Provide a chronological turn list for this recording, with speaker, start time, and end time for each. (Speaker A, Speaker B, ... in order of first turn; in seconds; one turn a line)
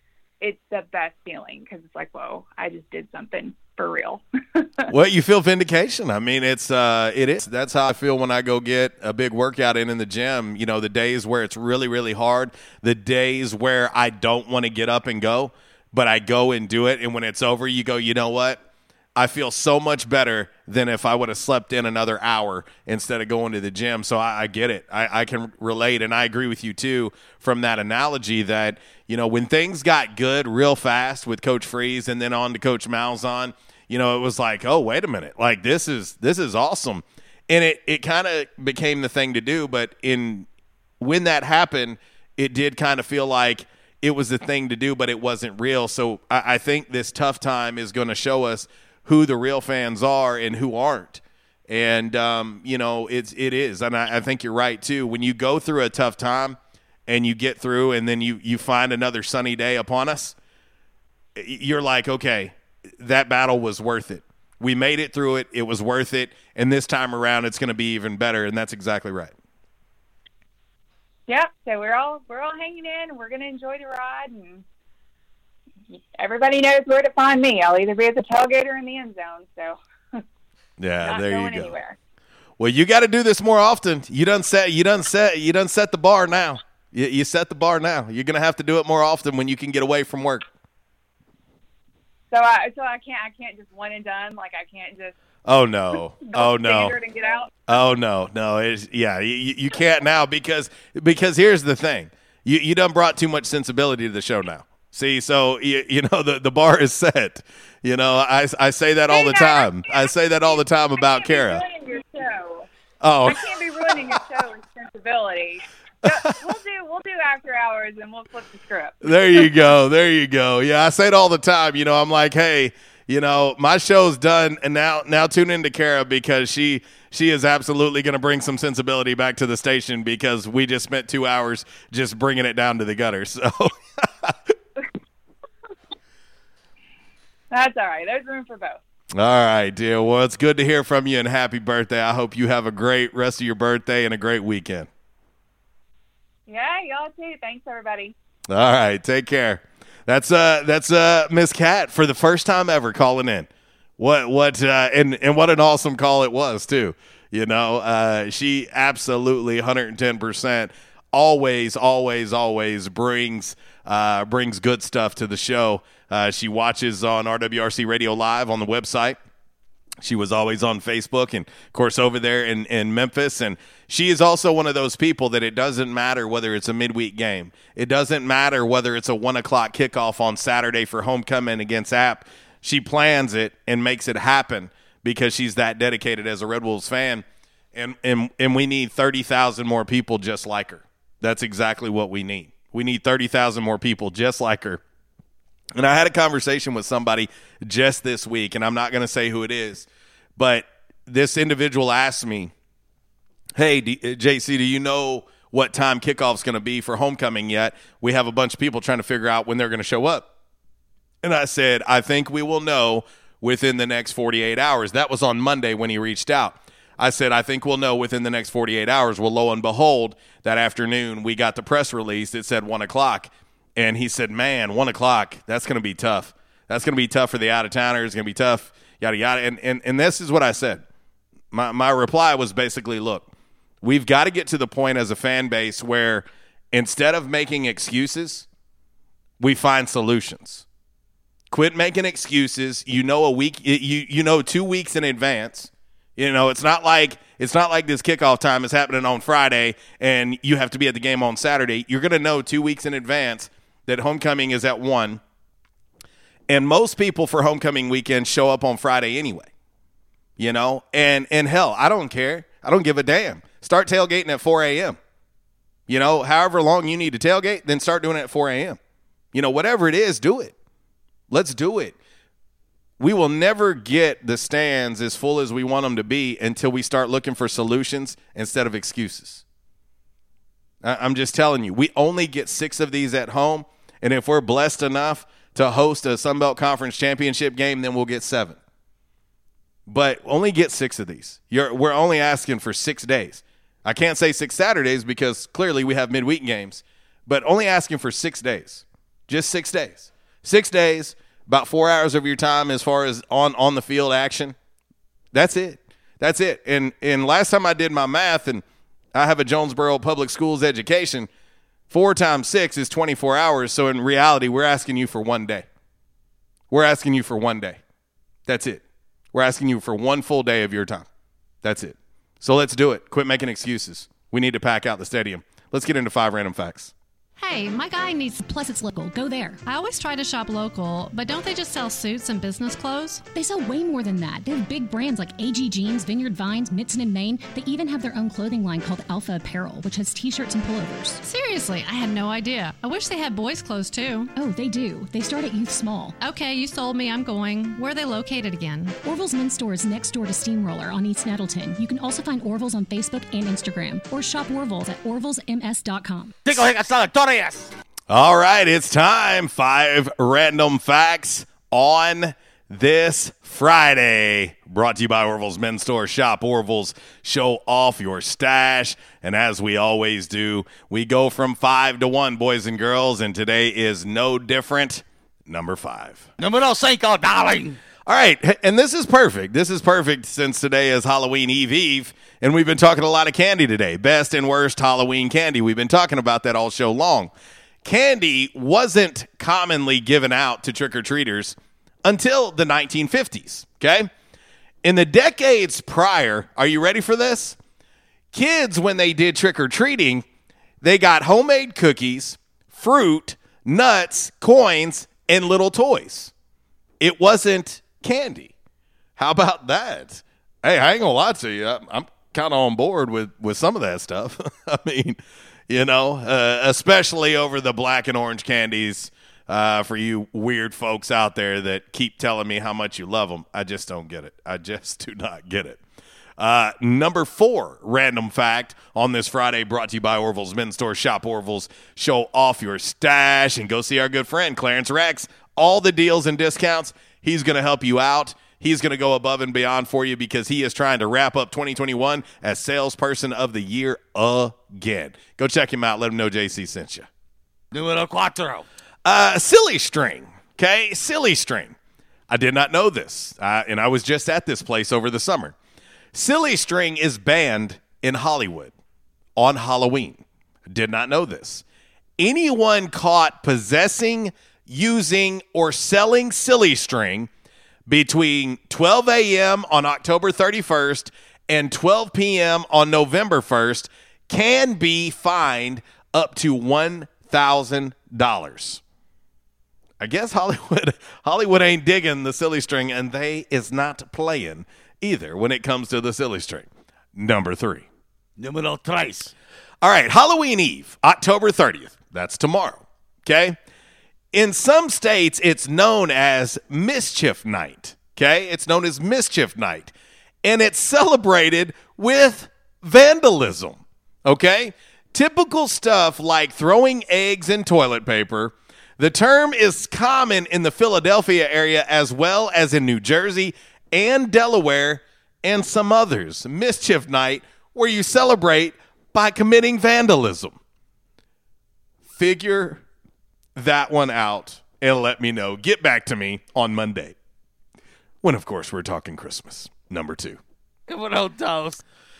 Speaker A: 0.4-4.8
Speaker B: 4.9-18.6
Speaker B: 19.1-40.5
Speaker B: 41.0-60.3
Speaker B: 61.4-69.3
Speaker A: 71.3-74.6
Speaker A: 75.9-80.2
Speaker B: 80.8-81.8
Speaker A: 81.0-82.0
Speaker B: 82.6-90.5
Speaker A: 92.3-95.1
Speaker B: 95.5-97.0
Speaker A: 96.2-97.6
Speaker B: 97.7-111.6
Speaker A: 109.1-112.7
Speaker B: 113.0-113.4
Speaker A: 113.2-119.6
Speaker B: 116.0-116.3
Speaker B: 119.0-133.7
Speaker A: 137.5-138.8
Speaker B: 139.1-144.9
Speaker A: 146.5-148.1
Speaker B: 148.5-169.2
Speaker B: 170.0-194.8
Speaker B: 195.8-202.5
Speaker B: 203.6-210.2
Speaker B: 211.2-230.8
Speaker B: 231.5-233.3
Speaker B: 233.8-238.4
Speaker B: 239.4-240.6
Speaker B: 241.5-255.2
Speaker B: 256.5-259.5
Speaker B: 260.4-265.0
Speaker B: 265.9-268.8
Speaker B: 269.3-270.5
Speaker B: 271.3-271.9
Speaker B: 273.0-279.4
Speaker B: 280.8-288.6
Speaker B: 289.9-304.5
Speaker B: 305.3-308.6
Speaker B: 309.1-311.3
Speaker B: 311.9-315.6
Speaker B: 316.7-317.8
Speaker B: 318.5-318.8
Speaker B: 319.3-321.1
Speaker B: 321.6-326.9
Speaker C: 327.4-328.4
Speaker D: 328.4-329.6
Speaker C: 329.6-333.2
Speaker D: 333.3-341.2
Speaker C: 341.2-344.3
Speaker D: 344.4-346.1
Speaker C: 346.2-349.0
Speaker D: 349.0-356.3
Speaker E: 356.4-357.7
Speaker B: 358.1-376.3
Speaker E: 376.4-377.8
Speaker B: 378.1-387.3
Speaker B: 387.8-394.1
Speaker B: 394.8-397.6
Speaker B: 398.3-400.2
Speaker B: 400.8-406.3
Speaker B: 407.0-408.5
Speaker B: 409.2-415.2
Speaker B: 415.7-425.8
Speaker B: 426.4-447.1
Speaker E: 447.7-448.6
Speaker B: 449.0-451.8
Speaker B: 452.3-455.5
Speaker B: 456.1-458.7
Speaker B: 459.4-461.6
Speaker B: 462.2-467.3
Speaker B: 467.9-478.8
Speaker B: 480.0-487.9
Speaker E: 488.4-489.3
Speaker B: 489.8-493.6
Speaker B: 494.3-499.9
Speaker B: 500.4-520.6
Speaker B: 522.1-522.8
Speaker B: 523.5-527.1
Speaker B: 528.2-530.4
Speaker E: 530.9-531.8